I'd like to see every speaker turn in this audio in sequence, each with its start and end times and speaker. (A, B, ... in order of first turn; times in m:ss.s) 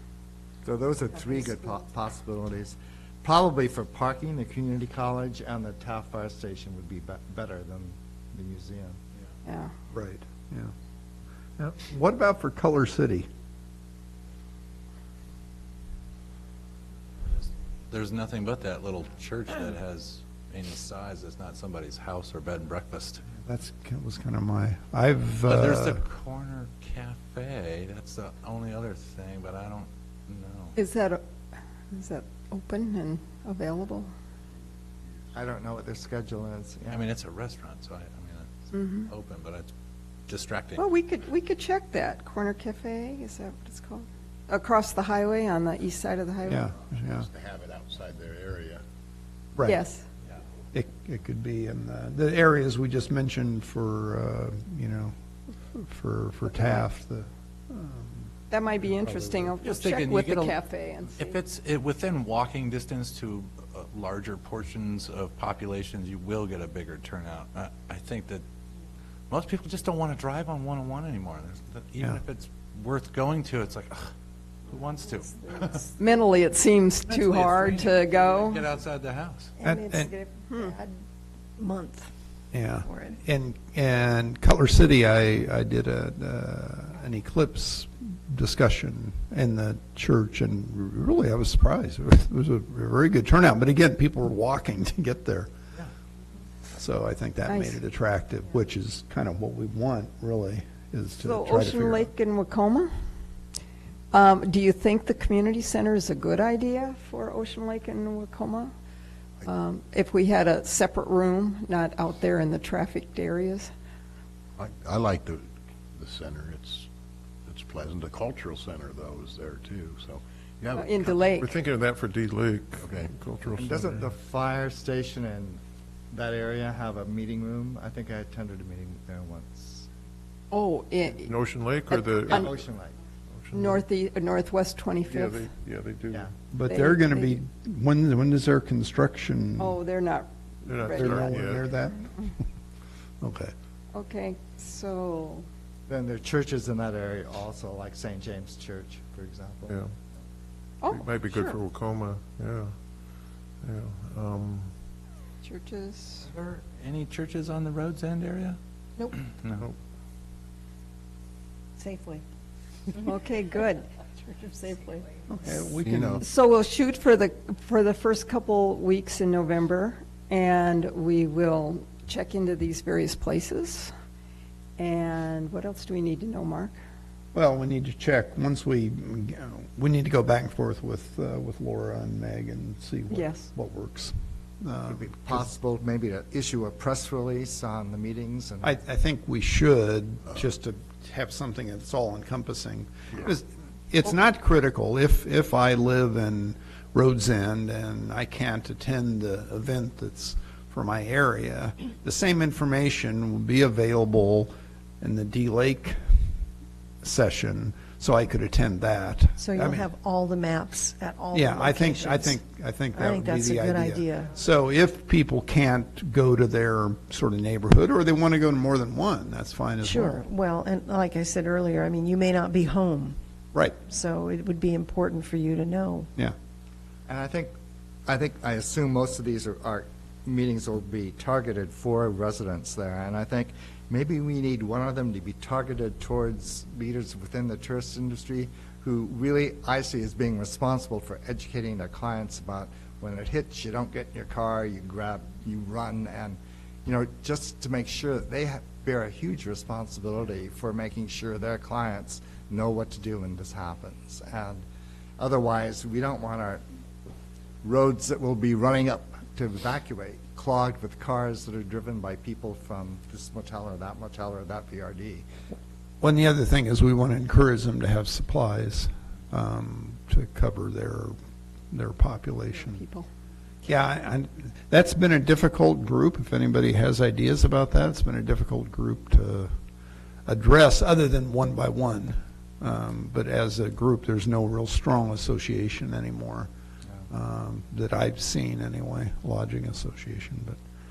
0:00.6-0:09.0 A
0:09.4-0:09.7 B
0:09.9-0:10.7 C
0:11.6-0:13.3 C
0:17.9-0:23.2 D
0:23.4-0:26.0 C
0:25.5-0:30.8 D
0:30.8-0:31.2 B
0:31.9-0:34.1 B
0:35.3-0:37.1 A
0:36.9-0:39.7 D
0:38.7-0:39.1 B
0:40.3-0:40.8 D
0:40.8-0:46.7 B
0:46.4-0:47.3 C
0:47.2-0:48.8 E
0:49.6-0:49.8 C
0:49.6-0:50.0 B
0:50.7-0:55.1 C
0:55.8-0:58.3 C
0:58.5-1:01.4 B
0:59.0-0:59.5 C
0:59.6-1:00.6 D
1:01.1-1:08.4 D
1:09.3-1:14.1 D
1:14.7-1:15.8 D
1:16.0-1:18.6 B
1:17.1-1:19.5 D
1:19.6-1:20.9 F
1:19.6-1:20.1 C
1:21.6-1:22.1 F
1:22.5-1:35.5 C
1:22.8-1:23.2 F
1:36.7-1:42.1 C
1:37.5-1:37.8 B
1:41.2-1:42.9 B
1:44.1-1:48.7 B
1:49.4-1:53.7 B
1:54.6-1:56.9 E
1:57.5-2:01.4 E
2:00.7-2:01.5 B
2:01.4-2:04.1 G
2:02.8-2:03.1 E
2:03.5-2:05.6 A
2:06.1-2:09.9 A
2:10.5-2:11.4 B
2:11.2-2:12.6 G
2:11.9-2:12.5 B
2:12.3-2:12.9 A
2:13.4-2:13.8 G
2:13.5-2:15.4 B
2:15.0-2:16.3 G
2:16.5-2:19.8 C
2:16.6-2:17.4 F
2:19.6-2:21.4 B
2:20.6-2:21.6 G
2:20.9-2:22.3 C
2:23.2-2:23.5 C
2:23.9-2:25.4 B
2:25.9-2:29.8 A
2:29.7-2:29.9 G
2:30.8-2:31.6 B
2:30.9-2:32.8 G
2:33.6-2:34.7 G
2:35.4-2:36.3 B
2:36.2-2:38.6 D
2:39.1-2:39.7 D
2:43.0-2:43.9 B
2:45.3-2:46.2 C
2:45.8-2:46.2 E
2:46.2-2:53.9 B
2:54.8-2:56.8 B
2:57.3-3:05.5 C
3:03.1-3:03.5 B
3:04.9-3:08.8 A
3:08.6-3:26.1 C
3:27.0-3:29.9 C
3:29.4-3:32.4 F
3:31.3-3:40.2 C
3:32.9-3:34.3 F
3:39.8-3:43.2 F
3:43.8-3:46.1 F
3:47.1-3:47.5 A
3:48.0-4:14.6 A
4:15.2-4:16.6 A
4:17.6-4:25.2 A
4:26.0-4:31.1 C
4:31.7-4:32.8 C
4:32.5-4:33.1 B
4:33.6-4:39.5 C
4:40.2-4:46.5 C
4:47.1-4:50.6 C